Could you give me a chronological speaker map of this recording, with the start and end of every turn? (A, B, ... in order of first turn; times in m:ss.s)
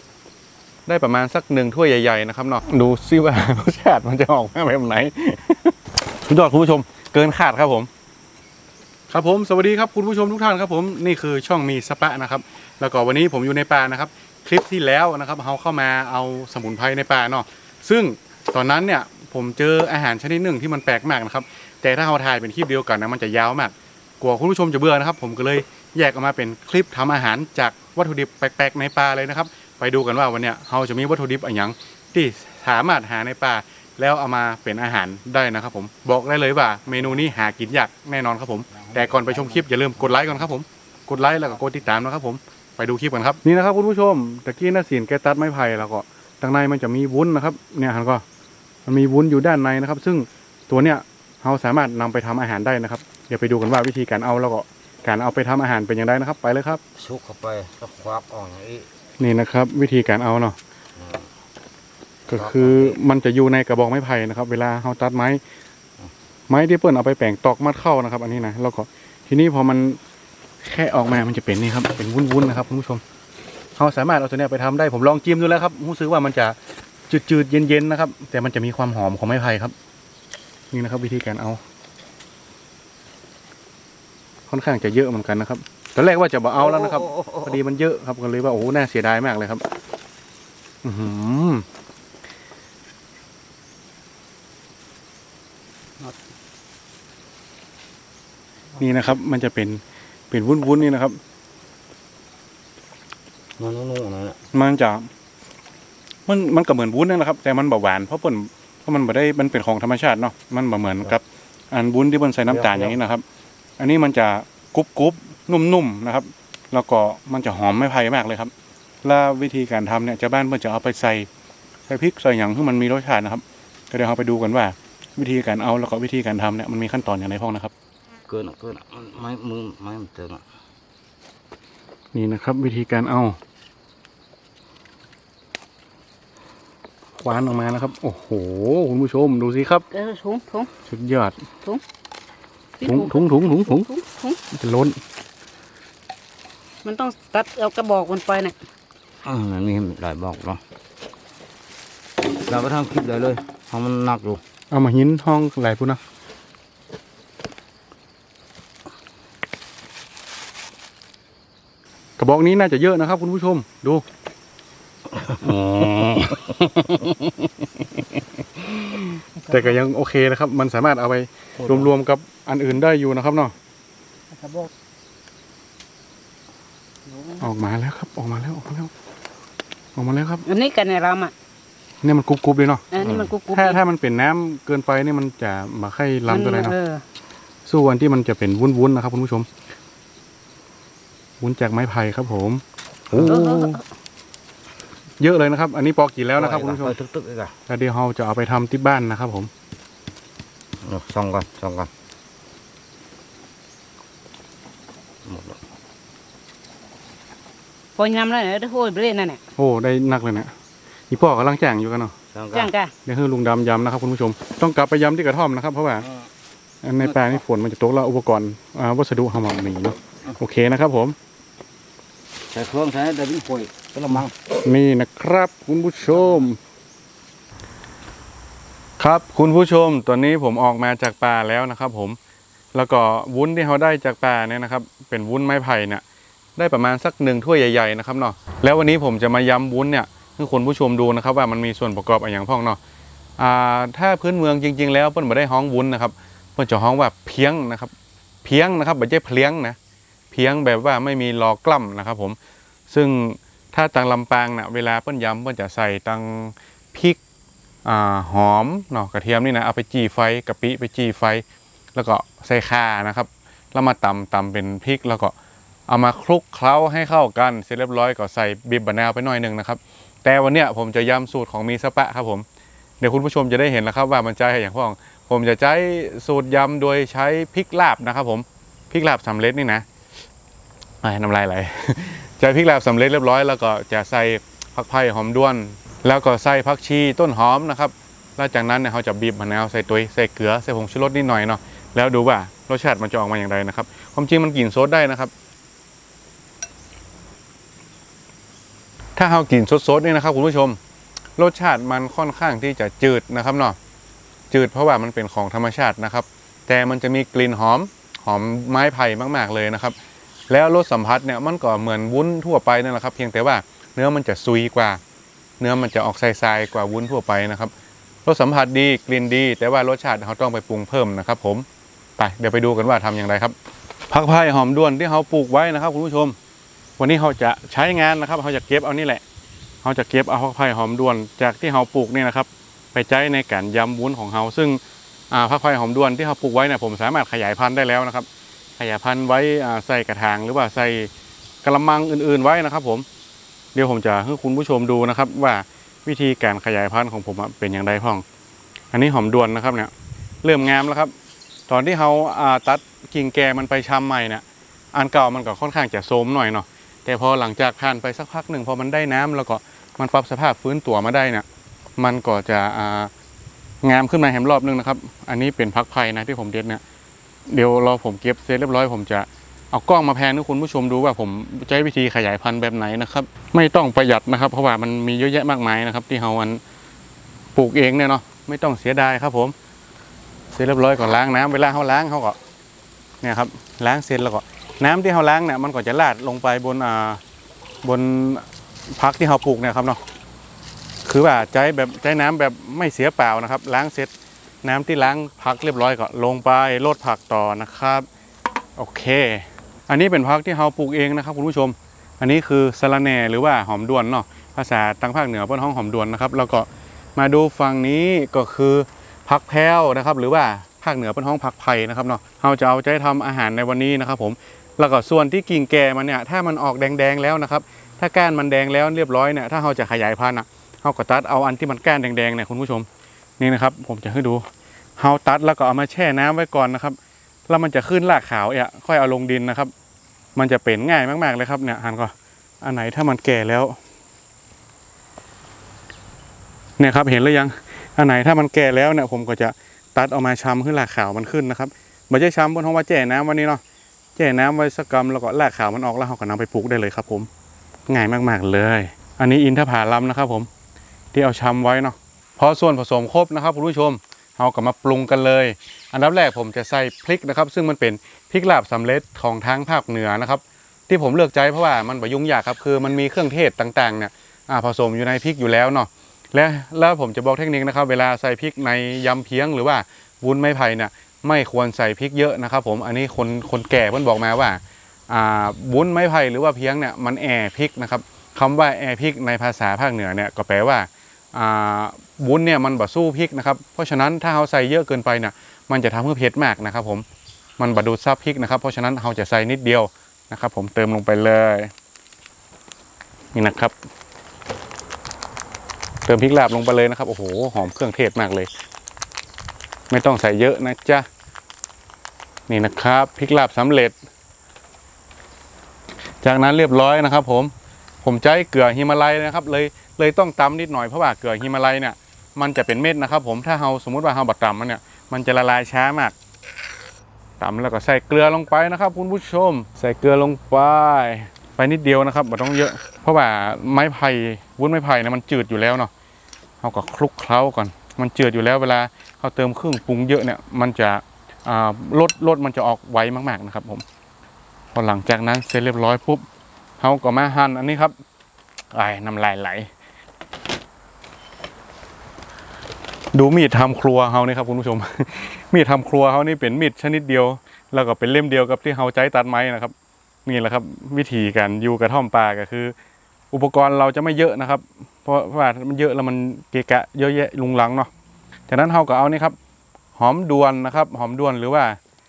0:00.9-0:07.9 A
0:09.1-0:48.2 A
0:38.9-0:39.6 B
0:48.9-0:56.8 A
0:57.0-0:58.9 B
0:59.2-1:00.6 A
1:01.0-1:01.3 B
1:02.3-1:05.4 A
1:02.3-1:03.0 B
1:06.5-1:10.0 A
1:10.6-1:13.0 A
1:13.8-1:16.6 A
1:17.1-1:19.7 A
1:20.7-1:21.6 A
1:24.5-1:29.6 A
1:26.6-1:27.6 B
1:30.8-1:31.6 A
1:38.8-1:41.2 A
1:43.6-1:44.4 B
1:44.5-1:45.1 A
1:46.3-1:53.2 A
1:52.5-1:53.0 B
1:53.8-1:58.5 A
1:59.0-2:01.3 A
2:01.9-2:07.7 A
2:08.3-2:10.4 B
2:12.1-2:13.4 A
2:17.2-2:19.9 A
2:19.9-2:20.7 C
2:20.9-2:21.4 A
2:22.8-2:24.4 C
2:22.8-2:23.9 A
2:24.5-2:25.0 A
2:26.8-2:28.6 C
2:29.2-2:30.6 B
2:32.2-2:34.4 B
2:34.7-2:36.0 A
2:42.2-2:44.0 A
2:45.4-2:48.0 A
2:48.6-2:53.5 A
2:51.6-2:51.9 B
2:57.4-2:58.9 A
3:00.0-3:00.4 A
3:00.5-3:01.3 C
3:02.0-3:06.8 A
3:02.9-3:03.8 C
3:03.0-3:03.3 B
3:06.3-3:07.0 C
3:07.7-3:09.5 A
3:11.4-3:13.8 A
3:13.3-3:13.8 C
3:15.2-3:17.0 A
3:16.4-3:17.5 B
3:17.7-3:19.5 A
3:20.8-3:21.9 B
3:25.2-3:25.6 B
3:28.0-3:29.4 C
3:29.6-3:30.5 A
3:31.1-3:32.2 A
3:32.3-3:32.7 B
3:32.5-3:32.9 C
3:33.0-3:36.1 A
3:36.8-3:41.2 A
3:37.0-3:37.4 B
3:42.5-3:44.3 B
3:44.6-3:46.6 A
3:49.0-3:52.2 A
3:52.7-3:56.0 A
3:56.6-4:02.8 A
4:03.4-4:07.9 A
4:08.4-4:09.8 A
4:10.3-4:12.4 A
4:12.9-4:17.2 A
4:17.8-4:21.4 A
4:22.0-4:25.3 A
4:25.9-4:32.5 A
4:33.0-4:39.8 A
4:41.0-4:55.3 A
4:59.2-5:00.8 A
5:01.4-5:03.8 A
5:04.5-5:10.0 A
5:10.5-5:15.0 A
5:15.6-5:17.7 A
5:18.2-5:21.7 A
5:22.2-5:23.6 A
5:24.1-5:26.4 A
5:27.0-5:29.2 A
5:29.8-5:34.8 A
5:35.3-5:38.3 A
5:38.8-5:41.1 A
5:41.6-5:43.0 A
5:43.8-5:48.2 A
5:48.9-5:49.9 A
5:50.4-5:51.1 A
5:51.7-6:01.4 A
6:02.0-6:03.1 A
6:03.8-6:06.8 A
6:07.5-6:16.6 A
6:17.6-6:19.5 A
6:20.6-6:22.4 A
6:23.2-6:27.2 A
6:27.8-6:30.0 A
6:31.0-6:34.1 A
6:34.6-6:38.1 A
6:38.8-7:02.9 A
7:03.4-7:04.5 A
7:05.0-7:07.0 A
7:07.5-7:09.7 A
7:10.4-7:13.8 A
7:16.8-7:23.6 A
7:24.2-7:27.3 A
7:27.9-7:30.5 A
7:31.1-8:07.0 A
8:07.6-8:11.7 A
8:13.3-8:13.7 A
8:16.1-8:18.5 A
8:19.9-8:21.1 A
8:22.5-8:23.9 A
8:26.2-8:27.5 A
8:28.0-8:36.2 A
8:37.4-8:45.9 A
8:46.6-8:53.8 A
8:54.7-8:56.2 A
8:56.8-8:57.9 A
8:58.7-8:59.7 A
9:03.1-9:09.7 A
9:10.2-9:12.7 A
9:13.3-9:17.9 A
9:18.5-9:19.4 A
9:20.0-9:21.8 A